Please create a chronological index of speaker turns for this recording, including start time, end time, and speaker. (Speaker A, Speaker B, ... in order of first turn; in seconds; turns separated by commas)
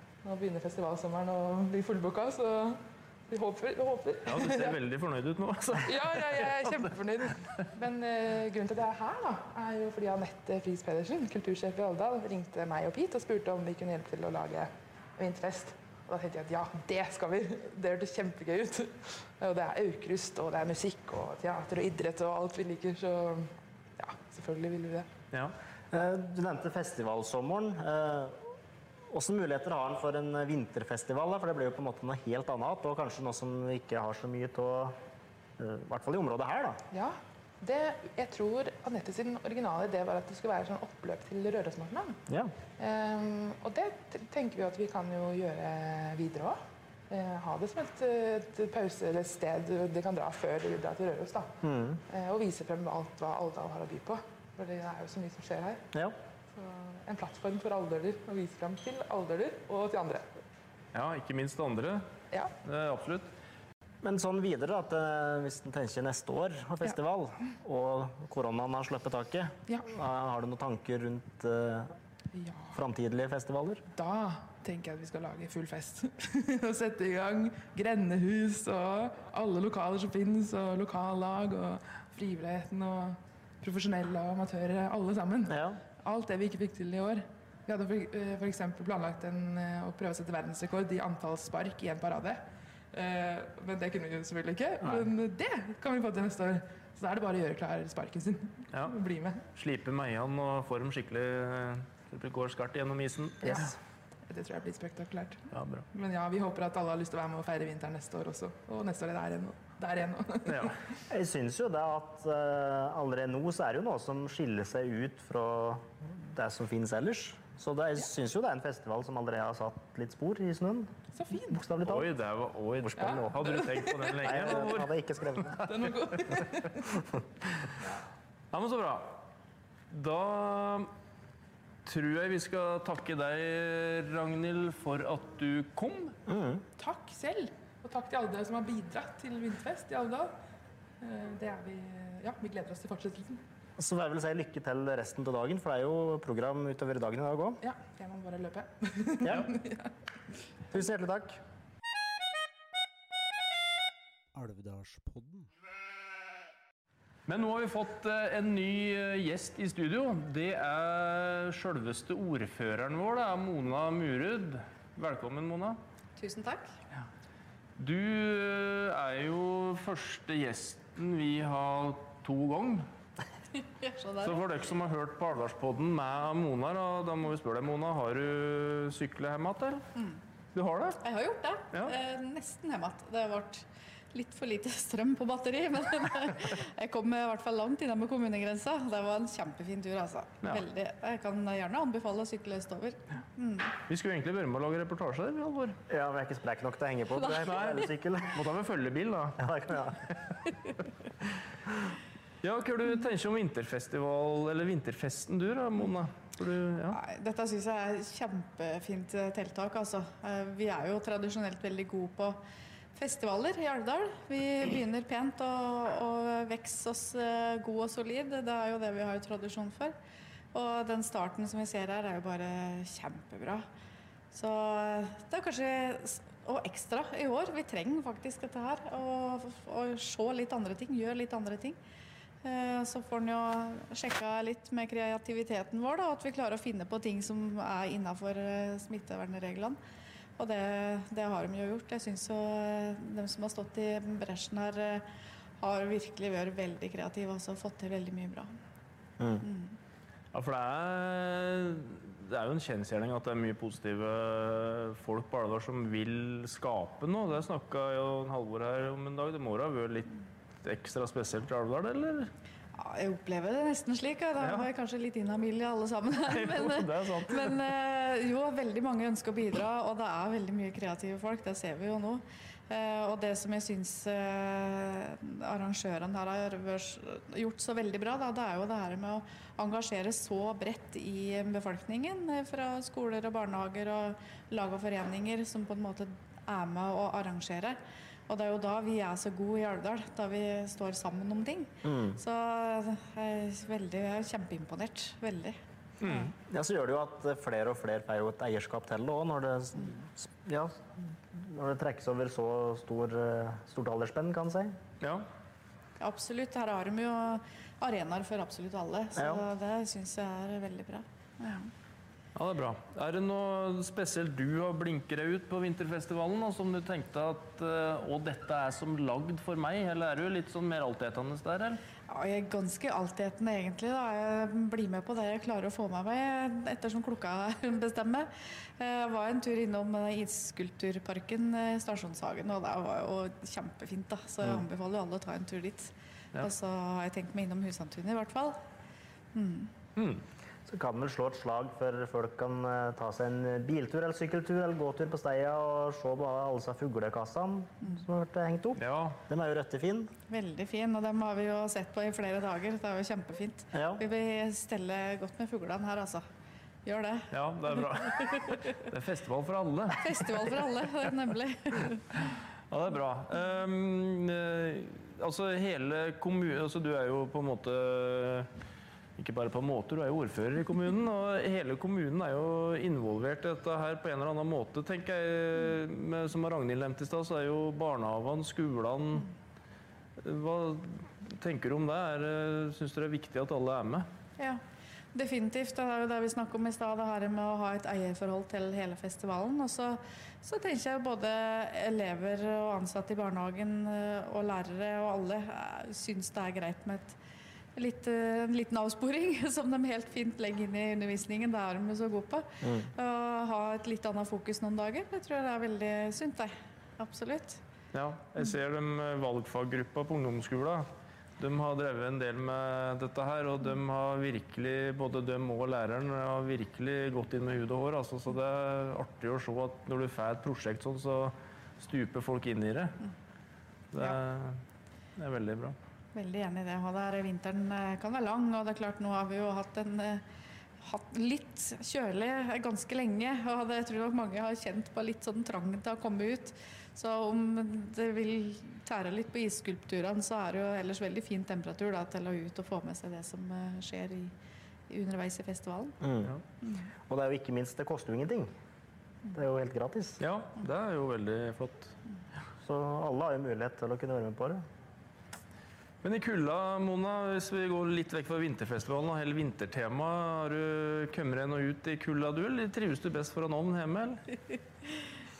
Speaker A: 0.2-4.7, Speaker B: 4.3-6.9, Speaker A: 5.8-25.1, Speaker C: 25.9-28.5, Speaker C: 29.1-35.0, Speaker C: 35.6-36.8, Speaker A: 36.9-42.2, Speaker C: 42.3-42.5, Speaker A: 42.8-46.6, Speaker A: 47.1-51.6, Speaker C: 51.6-52.0, Speaker A: 52.1-55.8, Speaker A: 56.5-60.2, Speaker B: 60.9-62.0, Speaker B: 62.6-63.3, Speaker C: 64.0-71.9, Speaker A: 72.3-72.8, Speaker C: 72.7-73.8, Speaker A: 73.9-92.4, Speaker C: 85.5-85.8, Speaker A: 92.9-99.4, Speaker C: 94.8-95.1, Speaker B: 99.5-103.7, Speaker A: 103.4-110.7, Speaker B: 105.5-105.8, Speaker B: 110.5-110.7, Speaker C: 111.1-120.9, Speaker A: 121.1-121.6, Speaker C: 121.5-122.1, Speaker B: 121.8-124.9, Speaker C: 122.8-123.4, Speaker A: 123.0-124.6, Speaker C: 124.2-125.7, Speaker B: 125.5-125.8, Speaker A: 125.7-127.0, Speaker B: 128.5-129.2, Speaker B: 129.9-130.9, Speaker B: 131.8-136.1, Speaker C: 136.3-136.6, Speaker A: 136.8-140.3, Speaker A: 141.0-143.4, Speaker C: 143.8-147.6, Speaker A: 147.6-149.9, Speaker C: 149.2-149.5, Speaker C: 150.7-151.4, Speaker B: 157.3-165.8, Speaker D: 166.2-166.7, Speaker B: 167.8-172.9, Speaker D: 173.8-174.4, Speaker B: 174.2-179.8, Speaker B: 180.5-181.0, Speaker D: 181.0-193.7, Speaker B: 193.9-195.8, Speaker C: 195.9-198.4, Speaker B: 197.4-199.4, Speaker C: 199.4-200.0, Speaker B: 202.4-207.0, Speaker D: 206.9-212.4, Speaker D: 212.9-219.9, Speaker D: 220.5-223.7, Speaker D: 224.3-231.8, Speaker D: 232.4-239.8, Speaker D: 240.4-245.1, Speaker D: 245.6-248.5, Speaker C: 249.2-249.4, Speaker D: 249.4-249.8, Speaker B: 250.3-260.1, Speaker B: 260.6-262.3, Speaker D: 262.8-296.3, Speaker B: 264.4-264.7, Speaker B: 266.3-267.6, Speaker C: 291.8-292.2, Speaker B: 296.0-296.3, Speaker C: 296.4-304.8, Speaker B: 305.0-305.2, Speaker D: 306.0-311.7, Speaker C: 309.2-309.4, Speaker B: 312.3-321.8, Speaker D: 322.1-338.6, Speaker D: 339.3-339.7, Speaker B: 339.9-340.2, Speaker C: 340.6-350.1, Speaker B: 348.8-349.2, Speaker D: 350.3-356.2, Speaker C: 353.7-354.0, Speaker D: 356.8-357.3, Speaker B: 357.3-360.7, Speaker D: 357.8-358.6, Speaker D: 360.0-362.2, Speaker B: 362.1-368.5, Speaker B: 369.2-379.3, Speaker B: 380.2-384.1, Speaker D: 385.1-397.1, Speaker D: 397.8-407.6, Speaker C: 402.6-402.9, Speaker B: 407.9-410.9, Speaker B: 411.4-423.0, Speaker B: 423.9-424.6, Speaker B: 425.2-425.8, Speaker D: 426.1-430.2, Speaker D: 430.8-444.3, Speaker D: 444.9-446.0, Speaker C: 446.0-446.3, Speaker D: 446.6-446.9, Speaker C: 447.1-448.5, Speaker C: 449.3-450.2, Speaker B: 450.2-452.0, Speaker C: 452.6-454.6, Speaker B: 456.0-464.2